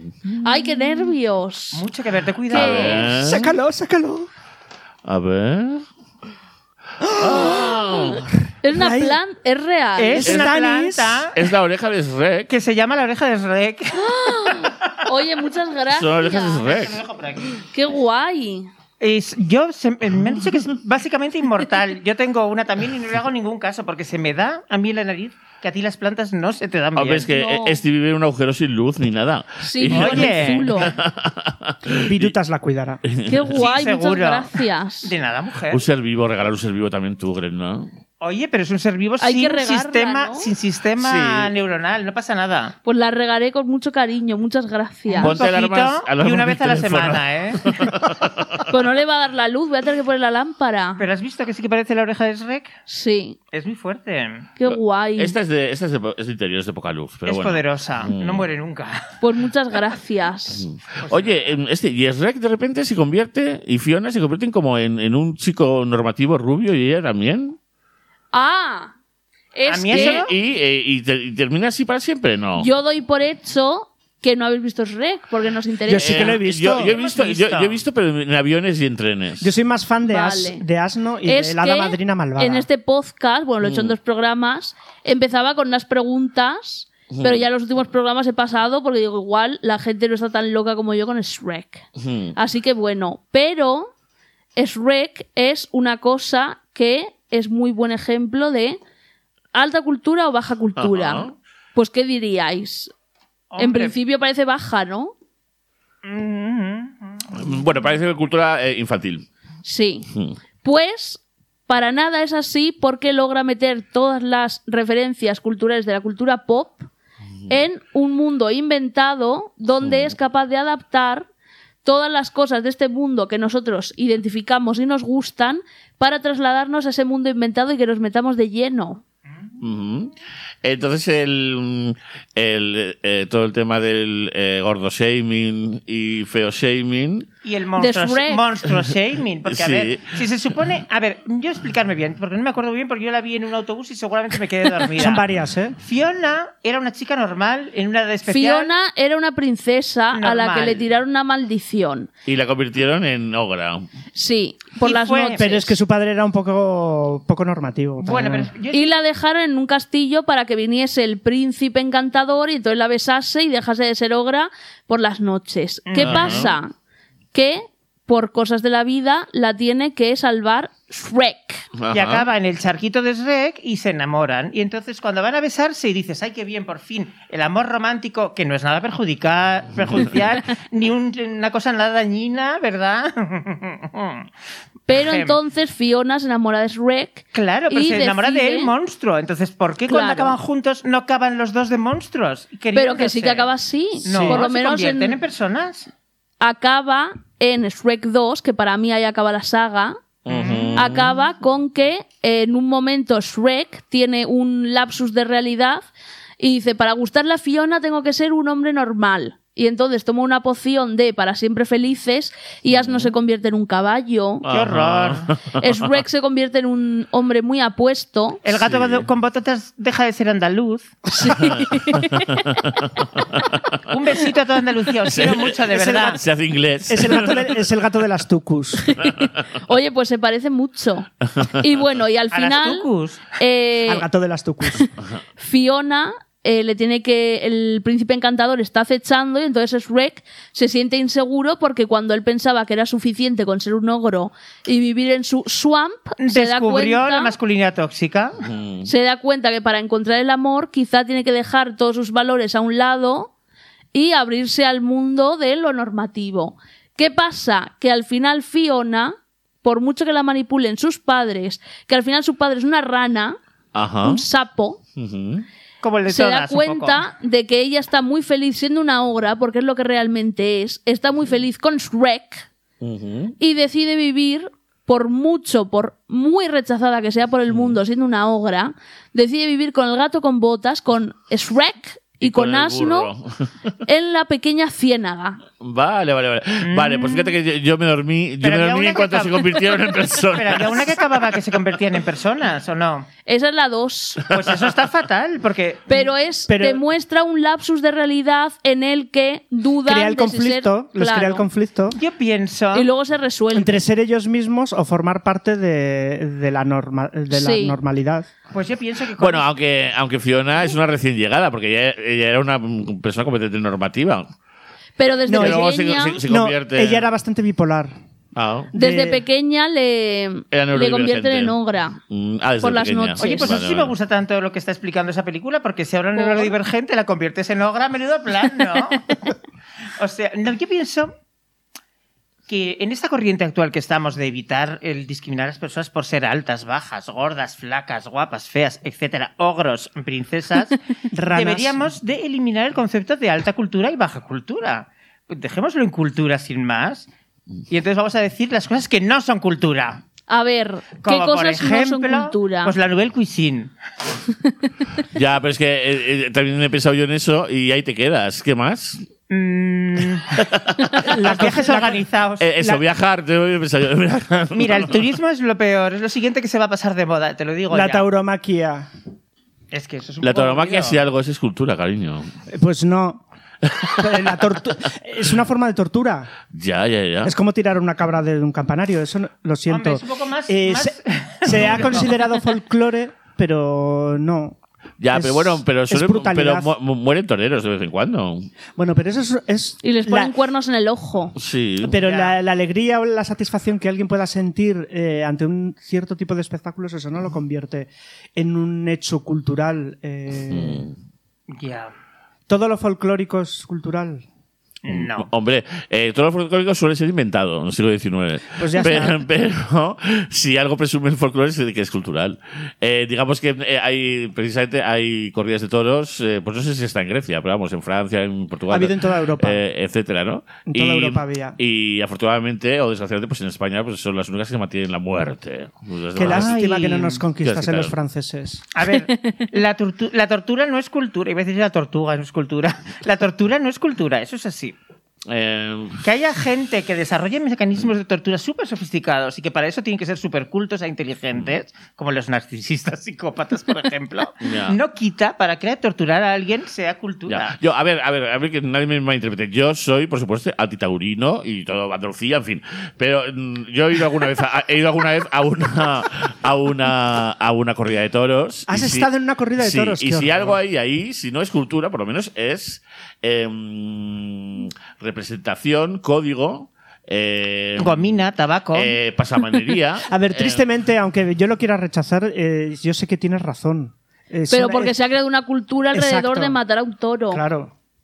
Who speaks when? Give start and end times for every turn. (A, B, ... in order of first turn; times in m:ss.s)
0:00.4-0:01.8 A
0:01.7-0:03.1 B
0:02.5-0:03.0 A
0:02.5-0:03.6 C
0:03.0-0:04.3 D
0:05.0-0:05.9 C
0:07.0-0:09.2 D
0:07.1-0:08.4 C
0:08.6-0:10.3 A
0:10.0-0:11.5 B
0:10.2-0:11.3 D
0:10.2-0:10.5 C
0:11.3-0:12.5 C
0:12.5-0:15.0 B
0:13.9-0:16.6 A
0:15.9-0:17.0 C
0:16.3-0:17.6 B
0:17.7-0:18.7 A
0:19.0-0:27.3 B
0:27.0-0:32.3 C
0:27.3-0:27.8 A
0:29.6-0:30.9 A
0:29.9-0:30.9 B
0:32.0-0:33.0 D
0:33.0-0:33.6 C
0:33.3-0:35.1 A
0:33.5-0:35.8 B
0:35.7-0:37.9 C
0:38.2-0:42.8 B
0:39.2-0:40.5 A
0:41.0-0:41.5 C
0:42.8-0:45.4 A
0:45.1-0:47.8 B
0:45.2-0:48.7 C
0:48.7-0:51.0 A
0:51.0-0:52.7 B
0:52.9-0:53.4 A
0:53.5-0:54.5 B
0:54.6-0:55.4 A
0:54.7-0:58.5 C
0:57.3-0:59.1 B
0:59.2-1:00.6 A
1:00.6-1:07.6 C
1:01.0-1:01.6 B
1:08.3-1:08.9 A
1:09.6-1:10.2 A
1:09.7-1:10.3 B
1:09.9-1:12.7 C
1:12.6-1:16.4 A
1:15.9-1:16.9 D
1:15.9-1:19.5 C
1:16.8-1:17.8 B
1:19.4-1:22.7 D
1:20.1-1:20.6 A
1:21.2-1:31.8 A
1:23.6-1:24.0 C
1:27.1-1:27.4 C
1:32.0-1:32.4 C
1:32.4-1:33.9 A
1:34.6-1:38.8 A
1:39.5-1:42.9 A
1:40.8-1:41.3 C
1:43.5-1:44.0 B
1:43.6-1:45.1 A
1:46.0-1:47.3 B
1:47.3-1:49.3 C
1:49.6-1:50.1 A
1:50.6-1:56.9 A
1:57.5-2:01.3 A
1:59.8-2:00.1 C
2:01.8-2:09.0 A
2:09.6-2:17.3 C
2:17.4-2:25.2 B
2:17.8-2:18.4 A
2:19.5-2:20.2 C
2:25.0-2:25.8 D
2:25.8-2:28.7 B
2:28.3-2:32.1 A
2:30.1-2:30.8 B
2:32.3-2:33.8 C
2:34.2-2:35.8 A
2:34.8-2:35.4 B
2:35.4-2:38.5 D
2:38.0-2:38.9 B
2:38.7-2:46.7 A
2:45.9-2:46.5 B
2:46.0-2:46.5 C
2:47.3-2:51.7 A
2:51.8-2:52.3 C
2:51.9-3:04.3 B
3:04.9-3:08.7 A
3:04.9-3:05.4 B
3:07.3-3:13.5 B
3:09.9-3:10.4 A
3:12.7-3:15.2 A
3:14.0-3:15.9 B
3:16.4-3:20.0 A
3:20.3-3:21.1 C
3:20.3-3:20.9 B
3:20.8-3:25.8 A
3:26.4-3:34.5 A
3:32.7-3:33.1 C
3:34.4-3:35.8 C
3:34.5-3:35.3 B
3:35.6-3:38.4 A
3:38.4-3:41.0 B
3:38.5-3:39.1 C
3:41.1-3:42.7 A
3:41.3-3:43.8 C
3:43.9-3:46.2 B
3:45.1-3:47.6 C
3:45.7-3:46.2 D
3:46.9-3:48.9 D
3:48.8-3:54.1 A
3:49.0-3:49.3 C
3:51.4-3:51.6 C
3:52.3-3:53.2 B
3:53.9-3:54.9 D
3:54.7-4:07.4 A
4:06.2-4:08.4 B
4:08.4-4:08.9 C
4:08.8-4:13.3 A
4:13.9-4:23.4 A
4:23.7-4:24.2 C
4:24.0-4:24.8 A
4:25.0-4:25.5 C
4:25.8-4:27.0 B
4:26.1-4:32.5 A
4:32.8-4:33.4 C
4:33.4-4:43.1 A
4:37.5-4:37.8 C
4:42.2-4:43.5 C
4:43.8-4:45.4 A
4:45.6-4:51.1 C
4:46.6-4:47.3 B
4:48.4-4:49.7 B
4:50.3-4:53.1 B
4:53.3-4:54.3 A
4:54.3-4:56.1 B
4:54.4-4:54.7 C
4:55.9-5:01.4 A
4:56.5-4:56.8 D
4:59.8-5:02.0 D
5:01.9-5:02.9 B
5:02.7-5:03.8 A
5:03.5-5:08.3 D
5:07.3-5:07.8 A
5:08.5-5:09.5 B
5:09.2-5:14.3 C
5:15.0-5:16.2 A
5:15.3-5:15.7 D
5:15.3-5:17.1 C
5:16.2-5:17.9 D
5:18.4-5:18.7 C
5:18.7-5:19.2 D
5:18.7-5:22.0 A
5:20.5-5:21.6 C
5:22.1-5:23.9 C
5:22.6-5:23.5 A
5:23.2-5:29.3 B
5:26.2-5:26.6 A
5:30.0-5:31.1 B
5:32.5-5:40.8 B
5:41.1-5:41.8 D
5:41.3-5:47.1 B
5:47.7-5:50.0 B
5:50.3-5:52.8 A
5:51.0-5:53.7 B
5:55.1-5:59.1 C
5:59.3-6:00.5 B
6:00.4-6:01.5 C
6:01.0-6:02.5 B
6:01.1-6:02.0 D
6:02.4-6:05.0 C
6:04.5-6:08.1 B
6:07.7-6:08.9 D
6:09.7-6:11.0 B
6:10.2-6:12.3 C
6:12.5-6:13.2 D
6:13.6-6:14.3 C
6:14.0-6:16.3 D
6:16.5-6:17.3 C
6:17.2-6:24.6 D
6:19.7-6:22.2 B
6:21.6-6:22.0 C
6:25.0-6:28.5 C
6:25.1-6:26.7 D
6:28.8-6:30.3 D
6:29.8-6:31.4 A
6:31.4-6:32.0 C
6:31.8-6:40.9 D
6:32.0-6:32.4 B
6:40.5-6:41.0 C
6:41.5-6:41.9 B
6:42.5-6:44.2 D
6:44.8-6:45.3 B
6:44.9-7:06.6 C
6:48.6-6:49.2 D
6:58.7-6:59.6 D
7:00.7-7:01.6 D
7:06.2-7:08.7 D
7:06.2-7:07.2 B
7:07.4-7:07.9 C
7:08.7-7:14.8 B
7:08.9-7:09.4 A
7:15.3-7:16.0 C
7:16.0-7:27.6 B
7:24.4-7:24.8 C
7:27.3-7:48.2 C
7:38.7-7:40.6 D
7:47.8-7:49.0 B
7:48.7-7:50.6 C
7:50.1-7:55.0 D
7:54.5-7:57.4 A
7:55.9-7:56.6 D
7:57.3-7:57.7 D